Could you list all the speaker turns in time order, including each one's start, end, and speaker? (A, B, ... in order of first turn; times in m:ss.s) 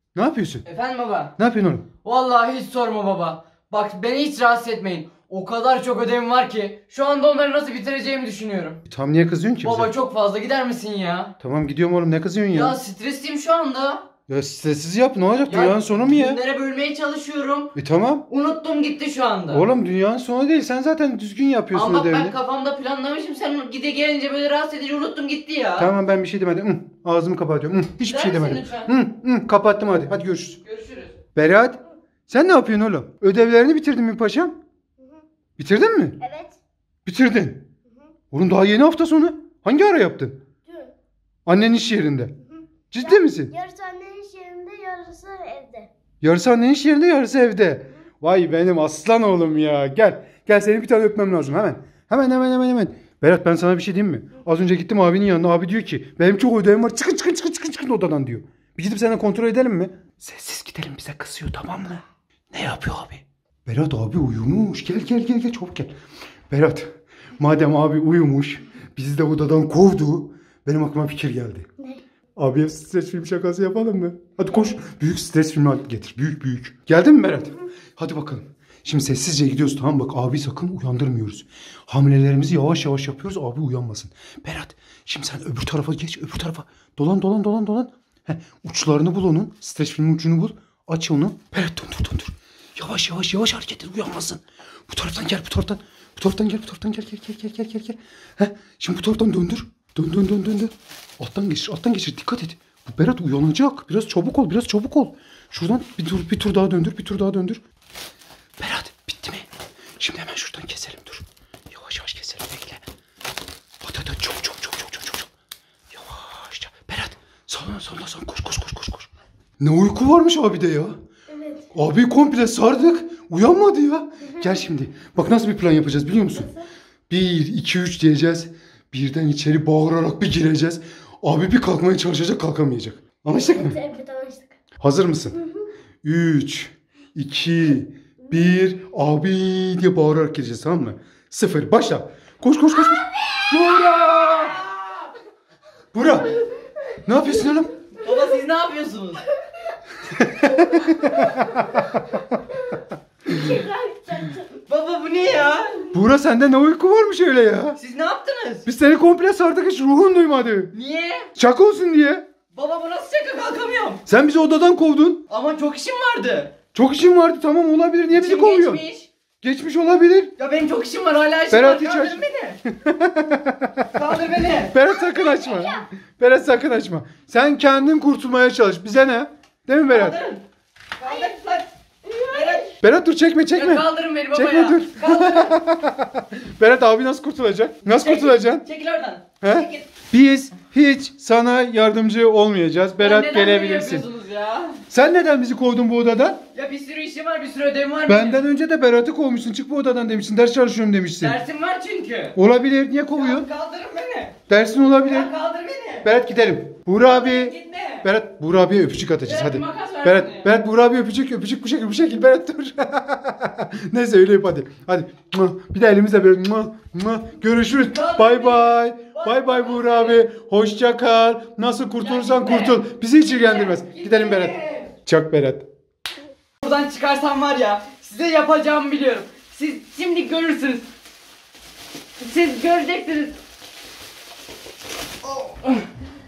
0:00.2-0:00.6 A
0:00.6-0:01.4 B
0:01.4-0:01.9 A
0:02.0-0:08.8 B
0:08.9-0:09.9 A
0:09.6-0:11.3 B
0:11.4-0:12.8 A
0:12.5-0:14.1 B
0:14.3-0:16.4 A
0:15.5-0:17.7 B
0:17.8-0:18.2 A
0:18.3-0:19.6 B
0:19.5-0:22.4 A
0:21.7-0:25.9 B
0:25.8-0:30.6 A
0:28.0-0:28.9 B
0:30.6-0:31.2 B
0:31.4-0:34.6 A
0:35.6-0:36.2 A
0:36.2-0:36.6 C
0:37.1-0:37.7 A
0:38.3-0:40.4 A
0:41.5-0:42.3 A
0:42.9-0:43.6 A
0:43.5-0:45.9 C
0:46.2-1:05.9 A
1:06.5-1:11.7 A
1:12.4-1:47.6 A
1:48.6-1:49.5 A
1:50.0-1:52.8 A
1:53.8-1:55.3 A
1:55.9-2:01.0 A
2:01.4-2:01.6 C
2:01.7-2:06.5 A
2:07.1-2:13.9 A
2:13.8-2:14.5 C
2:14.8-2:15.5 A
2:16.0-2:24.6 A
2:23.8-2:25.1 B
2:25.9-2:26.4 A
2:27.0-2:27.8 A
2:28.0-2:29.2 B
2:30.0-2:32.7 A
2:33.3-2:34.6 C
2:34.6-2:35.9 B
2:35.9-2:37.8 A
2:37.8-2:38.7 B
2:38.6-2:40.7 A
2:40.7-2:41.3 B
2:41.4-2:42.2 A
2:42.5-2:44.0 B
2:44.1-2:45.2 A
2:45.3-2:46.6 B
2:46.7-2:48.8 A
2:48.1-2:49.1 B
2:49.4-2:50.3 A
2:50.4-2:52.6 B
2:51.5-2:53.9 A
2:53.9-2:54.9 B
2:54.6-3:00.2 A
2:59.9-3:00.4 B
3:01.0-3:02.8 B
3:02.8-3:08.6 A
3:03.5-3:05.6 B
3:07.8-3:09.9 B
3:09.4-3:14.1 A
3:13.0-3:14.8 B
3:14.9-3:16.4 A
3:16.5-3:18.4 B
3:18.1-3:21.4 A
3:21.2-3:22.4 B
3:22.4-3:23.5 A
3:23.1-3:24.4 B
3:24.5-3:25.3 A
3:25.0-3:26.1 B
3:26.0-3:45.7 A
3:27.0-3:28.1 B
3:29.2-3:30.5 B
3:37.9-3:40.2 B
3:42.0-3:45.0 B
3:46.6-3:50.9 B
3:52.2-3:53.4 B
3:55.2-3:55.9 B